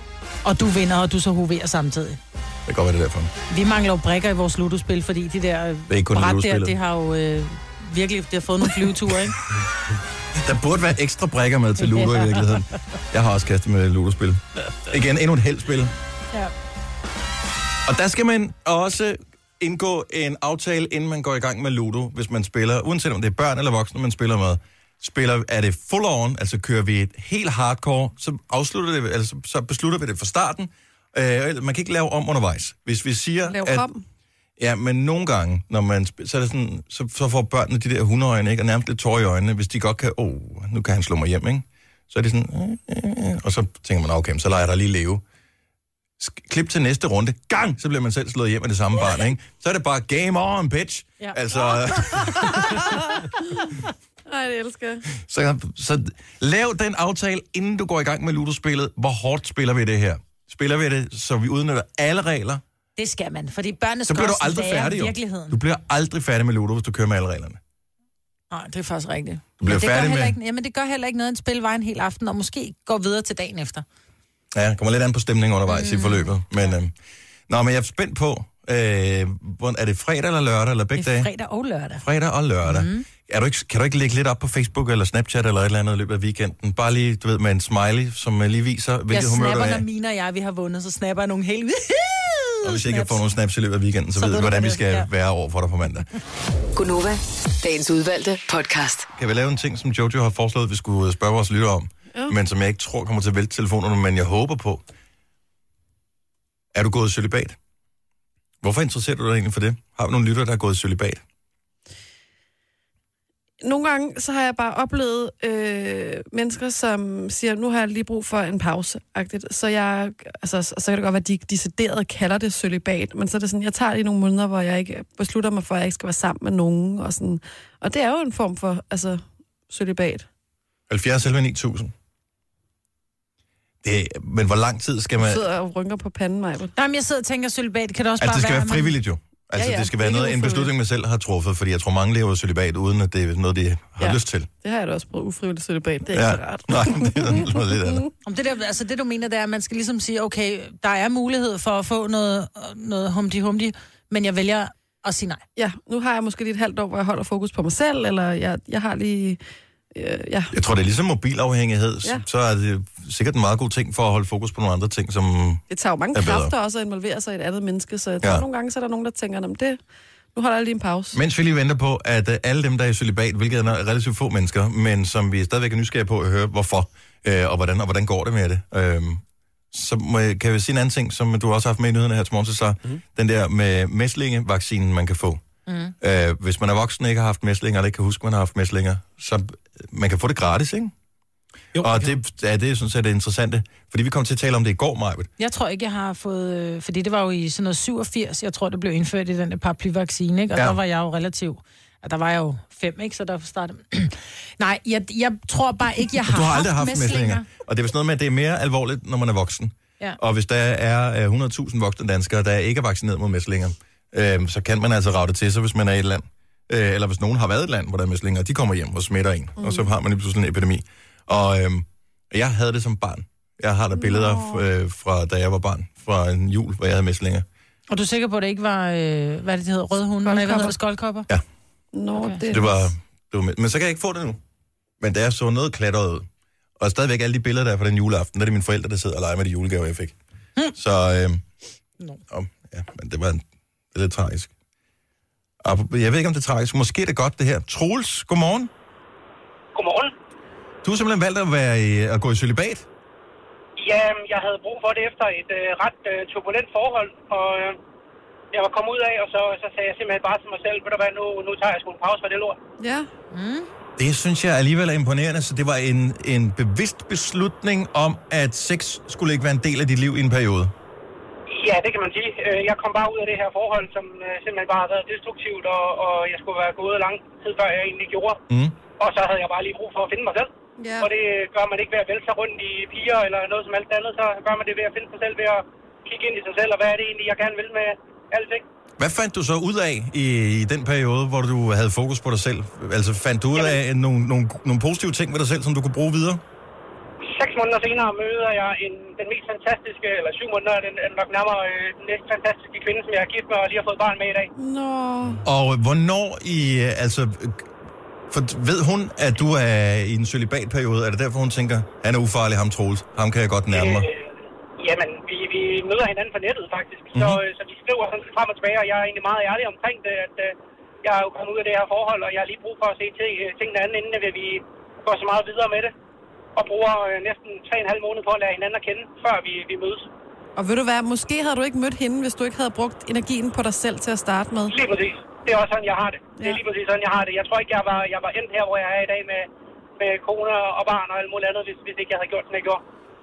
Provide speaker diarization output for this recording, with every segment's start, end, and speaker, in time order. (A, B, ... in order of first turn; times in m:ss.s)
0:00.4-0:02.2 A
0:02.6-0:03.3 B
0:03.5-0:09.4 A
0:05.9-0:06.7 B
0:10.4-0:15.9 B
0:11.8-0:12.5 A
0:17.8-0:33.8 B
0:33.5-0:34.0 C
0:34.6-0:45.2 B
0:46.2-0:52.6 B
0:51.2-0:52.5 A
0:52.5-0:53.8 C
0:54.3-0:55.0 C
0:55.2-1:02.6 B
1:03.0-1:05.6 A
1:04.1-1:07.6 B
1:08.5-1:13.8 A
1:09.6-1:10.4 B
1:14.5-1:16.9 B
1:15.7-1:16.7 A
1:17.5-1:21.3 B
1:21.0-1:22.0 A
1:22.0-1:29.8 B
1:22.6-1:23.0 A
1:29.1-1:33.2 A
1:32.6-1:36.1 B
1:34.2-1:35.1 A
1:36.8-1:39.1 D
1:39.2-1:44.8 B
1:46.7-1:47.6 B
1:48.6-1:51.2 B
1:53.6-2:10.3 C
2:10.9-2:11.9 B
2:13.8-2:15.4 B
2:15.2-2:16.7 C
2:16.8-2:19.0 A
2:18.2-2:24.5 B
2:19.5-2:20.7 C
2:24.0-2:28.1 C
2:26.1-2:28.0 B
2:28.2-2:35.4 A
2:35.6-2:39.4 C
2:39.9-2:40.5 C
2:40.5-2:46.5 B
2:45.7-2:49.8 C
2:50.3-2:51.2 C
2:51.1-3:05.4 B
3:05.7-3:05.9 A
3:06.0-3:10.9 B
3:11.8-3:15.3 B
3:15.4-3:27.4 A
3:26.2-3:47.4 B
3:39.6-3:39.9 C
3:43.9-3:44.6 C
3:47.9-3:51.3 A
3:50.2-3:50.8 C
3:51.9-3:52.7 C
3:52.1-3:52.4 A
3:52.5-3:54.4 B
3:55.0-3:56.3 B
3:56.8-4:00.2 B
4:00.7-4:01.4 B
4:02.3-4:04.5 B
4:05.6-4:08.7 B
4:09.7-4:10.1 E
4:10.8-4:12.8 B
4:13.8-4:17.8 E
4:18.5-4:22.6 E
4:22.8-4:23.1 C
4:23.3-4:23.7 A
4:24.0-4:30.7 B
4:31.5-4:38.4 E
4:38.5-4:38.7 B
4:39.0-4:48.6 E
4:40.8-4:41.1 C
4:49.0-4:56.4 B
4:57.2-5:04.5 E
5:04.6-5:05.4 C
5:05.4-5:07.7 B
5:08.3-5:14.1 B
5:13.7-5:25.9 E
5:17.1-5:17.4 B
5:26.6-5:30.1 E
5:30.6-5:34.8 C
5:34.7-5:39.5 E
5:36.4-5:36.6 C
5:40.0-5:42.8 E